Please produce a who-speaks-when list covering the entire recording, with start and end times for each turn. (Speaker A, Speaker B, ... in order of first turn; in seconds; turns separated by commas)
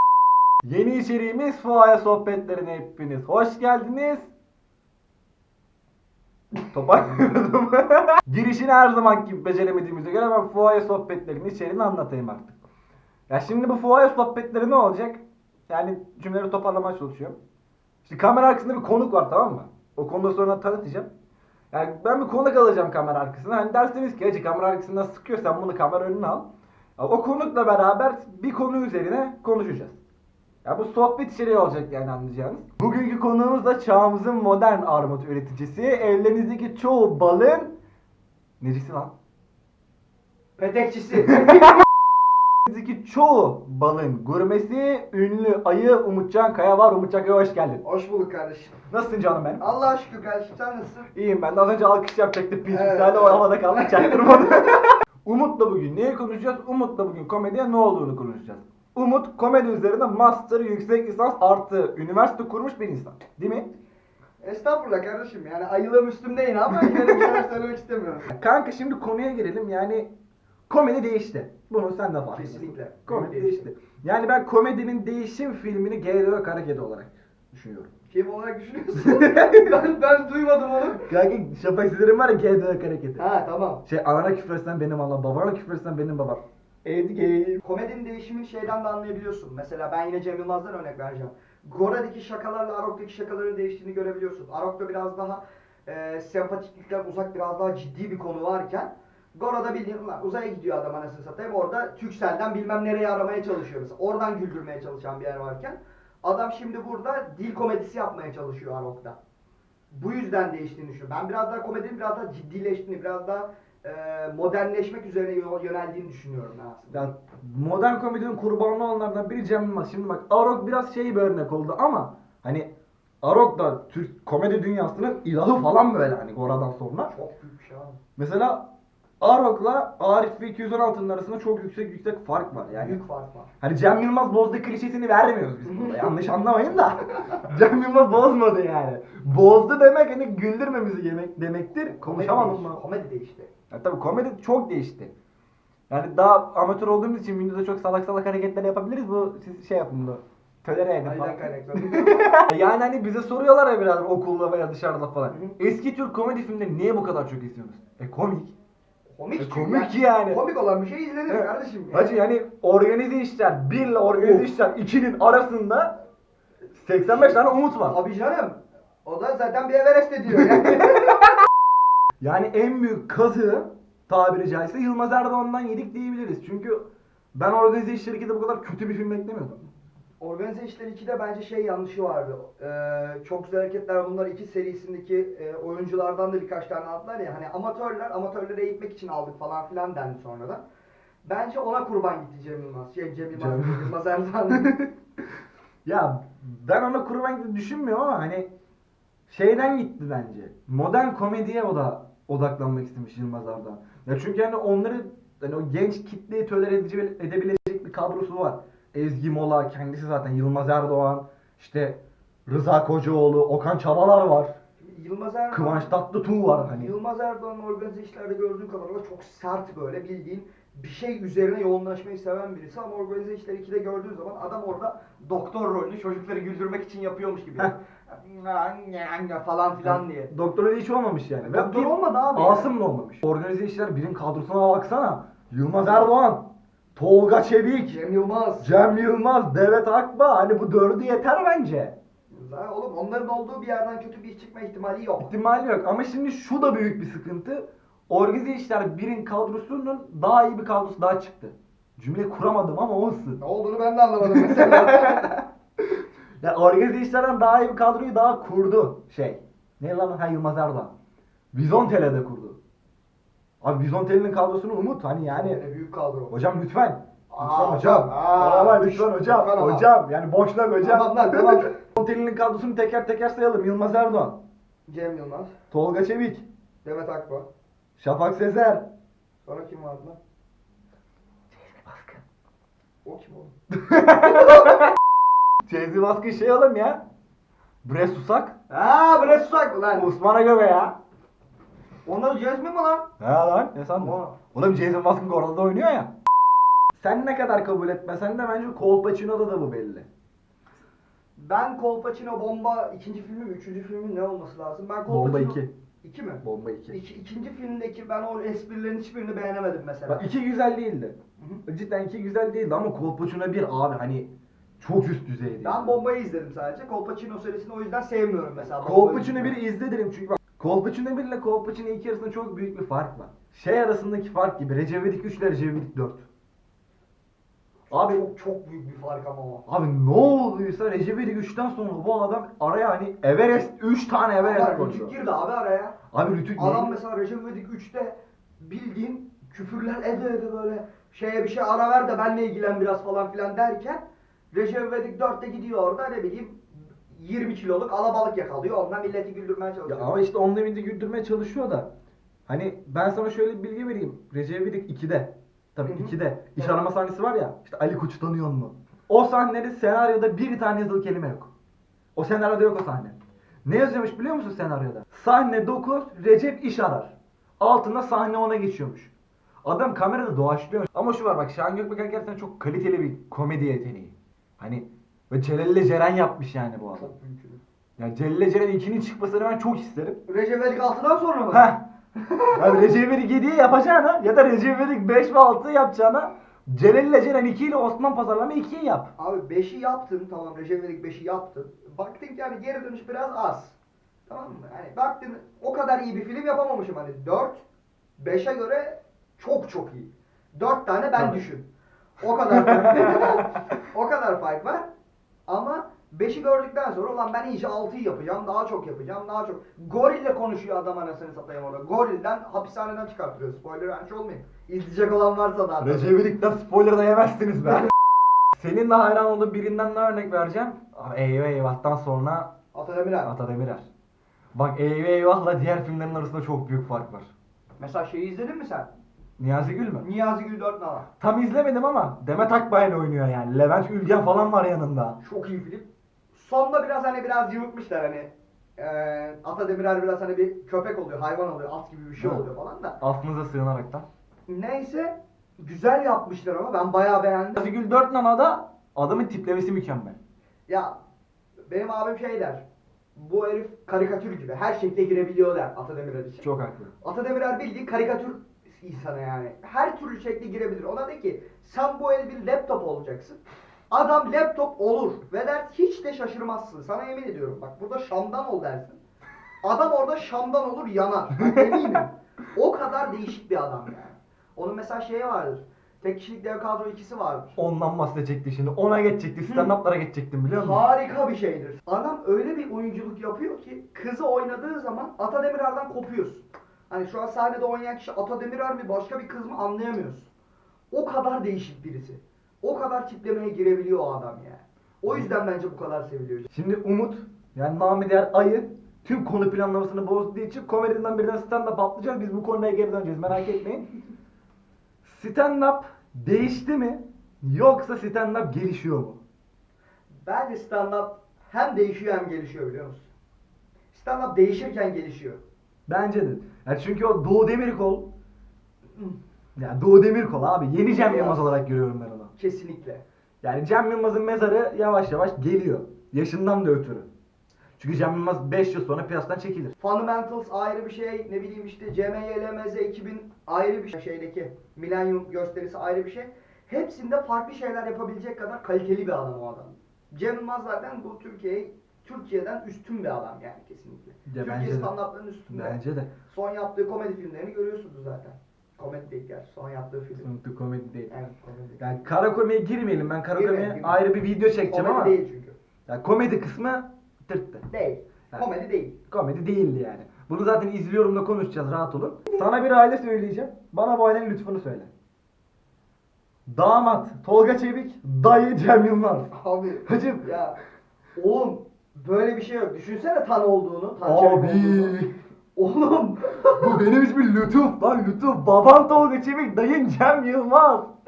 Speaker A: 0.6-4.3, Speaker A: 6.7-12.6, Speaker A: 13.3-17.4, Speaker A: 18.1-21.1, Speaker A: 21.7-26.5, Speaker A: 27.0-30.0, Speaker A: 30.6-37.7, Speaker A: 38.6-39.1, Speaker B: 40.6-41.6, Speaker A: 41.3-41.6, Speaker A: 42.7-47.8, Speaker B: 47.8-48.8, Speaker A: 48.9-49.6, Speaker B: 49.6-51.1, Speaker A: 51.1-63.7, Speaker B: 52.7-54.6, Speaker B: 64.4-68.3, Speaker A: 68.3-70.1, Speaker A: 70.7-77.9, Speaker B: 72.3-73.7, Speaker B: 78.1-81.1, Speaker A: 79.0-79.7, Speaker A: 81.0-83.2, Speaker B: 83.2-83.8, Speaker A: 83.8-87.6, Speaker B: 87.6-109.2, Speaker B: 109.9-117.1, Speaker A: 116.9-122.7, Speaker A: 123.2-127.1, Speaker B: 127.1-128.0, Speaker A: 128.2-128.7, Speaker A: 129.2-133.0, Speaker B: 132.7-133.5, Speaker A: 133.6-142.8, Speaker B: 135.7-136.1, Speaker B: 141.9-143.5, Speaker A: 143.7-145.1, Speaker A: 145.9-158.5, Speaker B: 151.0-152.3, Speaker B: 155.3-155.6, Speaker B: 159.2-162.2, Speaker A: 159.4-160.4, Speaker A: 161.3-166.0, Speaker B: 164.1-164.5, Speaker A: 166.7-168.0, Speaker B: 167.8-171.2, Speaker A: 172.2-176.8, Speaker A: 177.3-179.6, Speaker B: 180.2-190.7, Speaker B: 191.2-194.7, Speaker A: 193.3-193.9, Speaker A: 195.8-198.5, Speaker A: 199.3-214.6, Speaker B: 214.8-215.9, Speaker A: 215.5-216.9, Speaker B: 216.6-230.3, Speaker A: 229.8-238.0, Speaker B: 231.4-232.7, Speaker B: 237.9-238.7, Speaker A: 238.6-241.9, Speaker B: 242.3-245.3, Speaker A: 245.2-253.4, Speaker B: 253.4-255.4, Speaker A: 254.2-255.4, Speaker A: 256.4-260.9, Speaker A: 261.5-262.6, Speaker A: 263.6-265.6, Speaker B: 265.3-266.3, Speaker A: 266.3-274.4, Speaker B: 267.3-269.9, Speaker B: 270.8-271.7, Speaker B: 274.9-275.6, Speaker A: 275.7-276.4, Speaker B: 276.9-277.5, Speaker A: 278.0-278.9, Speaker B: 279.4-280.2, Speaker A: 281.5-282.2, Speaker B: 283.1-283.5, Speaker A: 283.8-284.9, Speaker B: 284.3-284.7, Speaker A: 285.7-287.0, Speaker A: 287.8-288.6, Speaker B: 288.7-290.1, Speaker A: 289.9-291.0, Speaker B: 292.1-293.1, Speaker A: 293.2-296.1, Speaker B: 294.0-294.4, Speaker A: 296.9-300.1, Speaker B: 301.4-310.3, Speaker A: 305.1-305.7, Speaker A: 306.4-307.0, Speaker A: 310.1-316.0, Speaker B: 315.6-319.6, Speaker A: 318.6-326.3, Speaker B: 327.9-329.6, Speaker A: 327.9-328.2, Speaker A: 329.7-335.1, Speaker B: 334.4-336.0, Speaker A: 336.1-336.9, Speaker B: 336.6-350.2, Speaker A: 349.9-351.9, Speaker A: 352.5-361.5, Speaker B: 355.9-356.7, Speaker A: 362.1-369.1, Speaker A: 369.6-377.1, Speaker B: 376.9-377.6, Speaker A: 378.0-380.2, Speaker B: 380.3-381.7, Speaker A: 381.5-381.8, Speaker B: 382.2-382.8, Speaker A: 382.5-389.1, Speaker B: 389.2-393.8, Speaker B: 394.3-397.6, Speaker B: 398.2-401.7, Speaker B: 402.2-404.9, Speaker A: 402.5-403.2, Speaker B: 405.5-416.2, Speaker A: 415.8-417.9, Speaker A: 418.6-422.5, Speaker B: 422.7-423.3, Speaker A: 423.2-423.9, Speaker A: 424.6-427.3, Speaker B: 427.8-428.9, Speaker A: 429.4-430.1, Speaker B: 430.0-431.1, Speaker A: 431.2-435.2, Speaker B: 435.2-443.0, Speaker A: 442.2-442.4, Speaker A: 443.0-444.1, Speaker B: 444.5-447.6, Speaker A: 447.6-450.1, Speaker B: 450.7-451.0, Speaker B: 451.7-452.6, Speaker B: 453.2-456.4, Speaker A: 456.4-456.9, Speaker B: 457.0-463.4, Speaker B: 463.9-469.0, Speaker B: 469.6-477.6, Speaker A: 477.6-480.9, Speaker B: 479.5-479.7, Speaker B: 480.5-490.3, Speaker B: 490.9-496.5, Speaker A: 496.5-503.9, Speaker A: 505.0-509.2, Speaker B: 510.2-513.1, Speaker B: 513.9-515.4, Speaker A: 515.9-518.1, Speaker A: 519.6-522.3, Speaker B: 520.9-521.6, Speaker B: 522.4-523.0, Speaker A: 523.4-527.1, Speaker A: 527.8-529.8, Speaker B: 529.8-550.3, Speaker A: 544.3-544.9, Speaker A: 545.5-546.1, Speaker A: 550.2-551.1, Speaker B: 551.1-551.8, Speaker A: 551.8-555.2, Speaker B: 553.3-554.0, Speaker B: 554.7-555.5, Speaker A: 555.9-557.7, Speaker B: 557.7-559.0, Speaker A: 559.1-564.9, Speaker A: 566.5-569.3, Speaker B: 569.3-570.6, Speaker A: 569.9-570.3, Speaker B: 571.2-575.0, Speaker A: 574.0-575.1, Speaker B: 575.6-576.8, Speaker A: 576.6-580.9